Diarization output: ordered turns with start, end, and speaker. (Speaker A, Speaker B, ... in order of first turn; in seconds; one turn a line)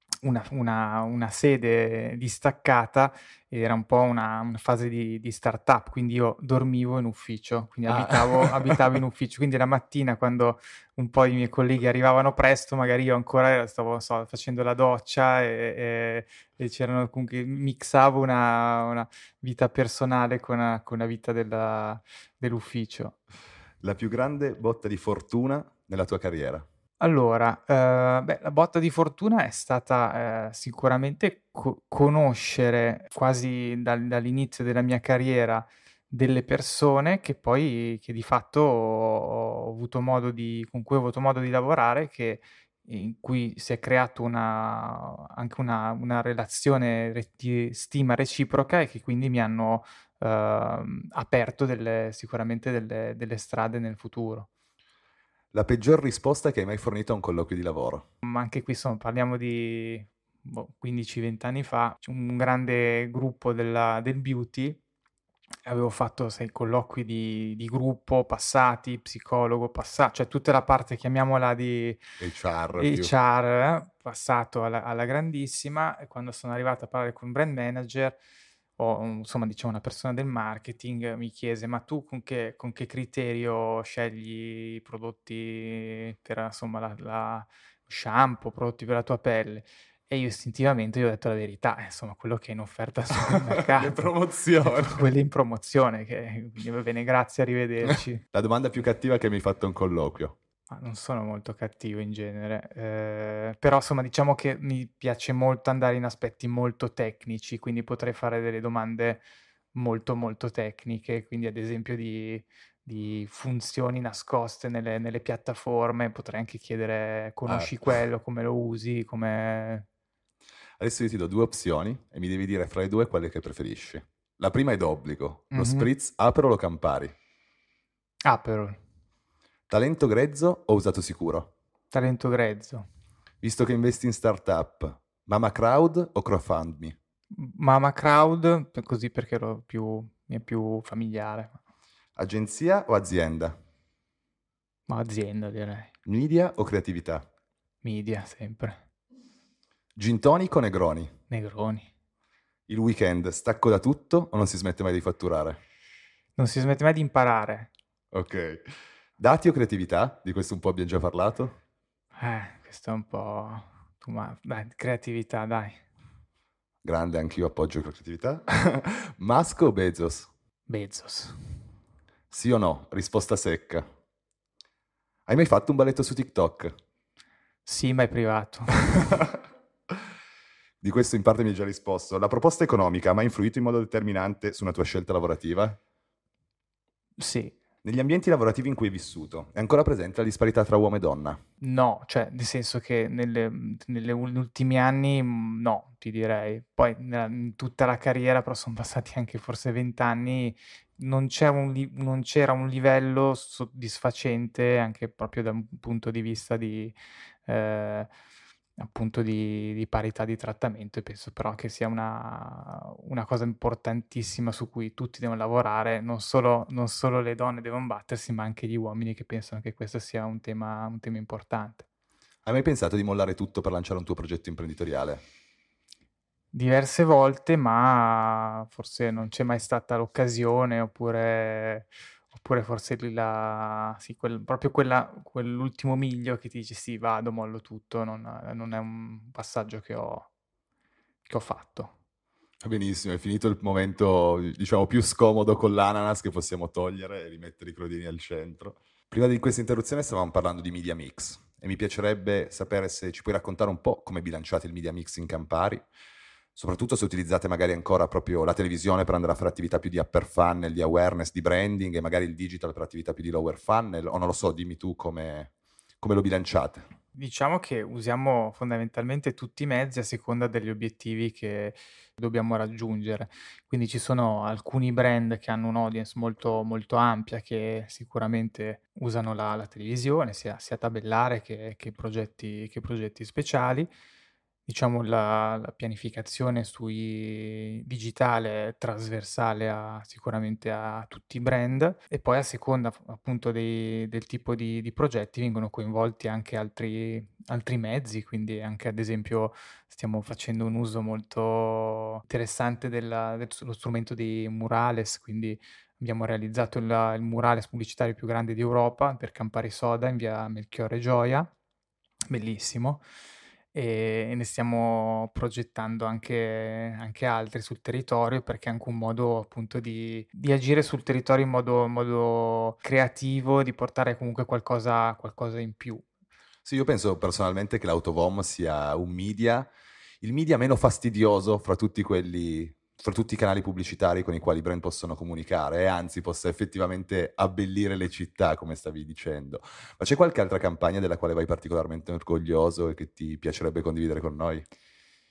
Speaker A: 0.2-23.2
Speaker B: 7.9-8.9
Speaker B: 23.8-26.6
Speaker A: 27.0-54.5
Speaker B: 55.5-58.0
Speaker A: 58.2-64.8
Speaker A: 65.6-72.0
Speaker B: 72.2-73.1
Speaker A: 72.8-78.2
Speaker A: 78.8-94.0
Speaker B: 93.2-95.1
Speaker A: 94.6-98.2
Speaker B: 98.3-100.3
Speaker A: 100.7-119.8
Speaker B: 117.5-117.7
Speaker B: 120.8-127.1
Speaker A: 125.5-125.9
Speaker A: 128.2-128.8
Speaker B: 129.7-131.5
Speaker A: 131.9-132.8
Speaker B: 133.4-136.9
Speaker A: 137.3-141.6
Speaker B: 142.2-143.6
Speaker A: 144.9-145.9
Speaker B: 146.1-147.2
Speaker A: 147.8-148.8
Speaker B: 149.9-151.1
Speaker A: 151.3-151.9
Speaker B: 152.7-155.6
Speaker A: 156.3-157.7
Speaker B: 158.1-158.7
Speaker B: 159.2-161.6
Speaker A: 162.2-165.8
Speaker B: 166.8-170.3
Speaker A: 170.7-171.4
Speaker B: 172.3-173.9
Speaker B: 175.3-176.8
Speaker A: 177.7-179.0
Speaker B: 180.8-185.8
Speaker A: 187.2-187.6
Speaker B: 187.8-191.4
Speaker A: 191.6-206.9
Speaker A: 207.4-208.1
Speaker A: 208.8-221.8
Speaker B: 222.4-225.2
Speaker A: 226.5-240.3
Speaker A: 241.2-241.9
Speaker B: 242.6-255.8
Speaker B: 256.5-266.9
Speaker A: 267.1-283.9
Speaker A: 284.6-311.5
Speaker A: 312.3-313.0
Speaker A: 313.7-326.0
Speaker B: 326.6-329.7
Speaker B: 330.2-344.6